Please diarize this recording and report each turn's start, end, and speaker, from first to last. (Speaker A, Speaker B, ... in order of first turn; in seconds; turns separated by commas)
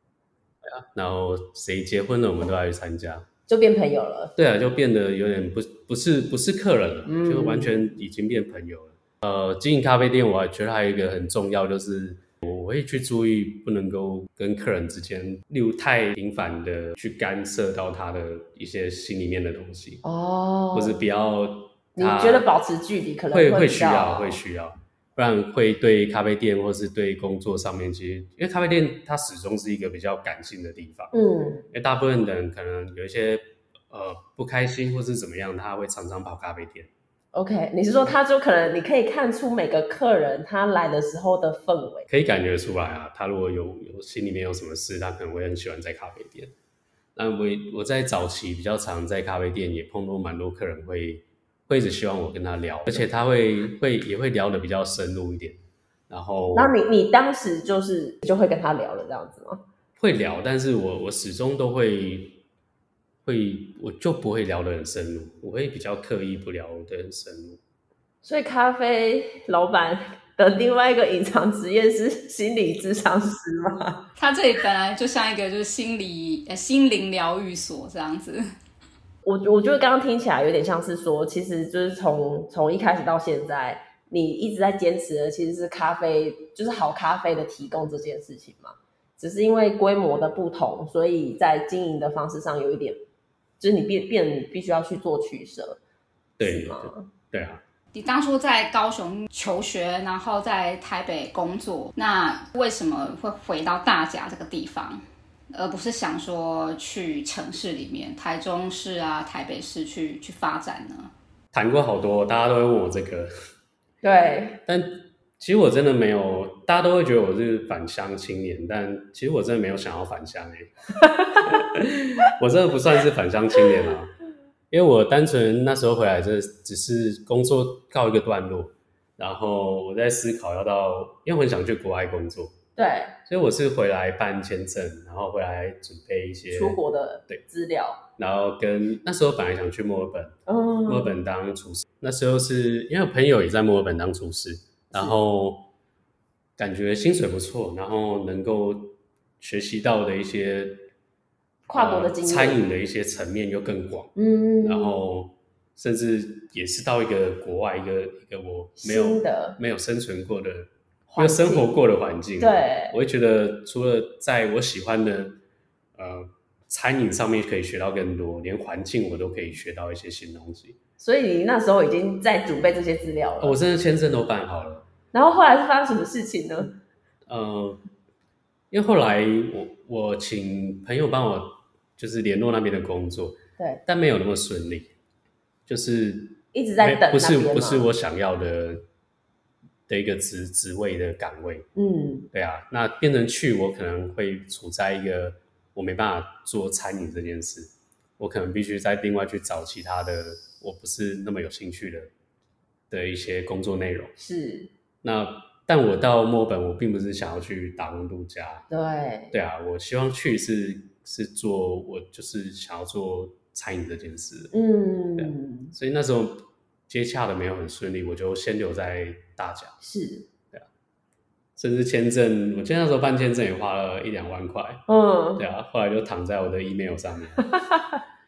Speaker A: 0.6-3.3, Speaker B: 3.5-4.3, Speaker A: 4.3-20.0, Speaker B: 7.0-7.9, Speaker B: 20.0-21.0, Speaker A: 20.7-22.4, Speaker B: 21.9-24.4, Speaker A: 23.3-31.1, Speaker B: 31.1-31.7, Speaker A: 31.7-36.9, Speaker B: 37.3-42.1, Speaker A: 42.1-46.5, Speaker A: 47.1-55.6, Speaker A: 56.1-56.7, Speaker B: 56.5-59.6, Speaker A: 60.0-62.4, Speaker A: 63.2-67.6, Speaker B: 68.2-74.1, Speaker C: 74.2-78.5, Speaker B: 79.2-93.0, Speaker B: 93.6-95.8, Speaker A: 96.4-97.6, Speaker B: 96.4-97.1, Speaker C: 97.9-111.1, Speaker A: 111.5-113.3, Speaker B: 114.0-114.6, Speaker A: 114.7-120.7, Speaker A: 121.3-124.1, Speaker A: 124.7-132.6, Speaker B: 132.8-133.1, Speaker A: 133.2-137.4, Speaker B: 136.5-138.0, Speaker A: 138.2-145.7, Speaker B: 140.5-141.1, Speaker A: 146.6-150.9, Speaker B: 151.7-152.6, Speaker A: 151.7-165.4, Speaker B: 154.2-155.0, Speaker B: 158.8-159.6, Speaker B: 161.1-161.7, Speaker B: 162.4-162.9, Speaker A: 165.9-170.8, Speaker B: 171.0-173.6, Speaker A: 173.4-174.9, Speaker B: 175.1-176.8, Speaker A: 177.3-177.8, Speaker A: 178.7-184.9, Speaker A: 185.7-188.8, Speaker B: 186.5-187.9, Speaker A: 189.9-191.7, Speaker B: 191.8-192.3, Speaker A: 192.3-202.1, Speaker A: 202.9-204.1, Speaker B: 204.2-204.7, Speaker A: 205.0-208.7, Speaker B: 208.7-209.3, Speaker A: 209.3-214.5, Speaker B: 214.5-215.7, Speaker A: 215.2-219.8, Speaker B: 219.8-220.3, Speaker A: 221.6-224.8, Speaker B: 224.9-225.4, Speaker A: 225.4-227.5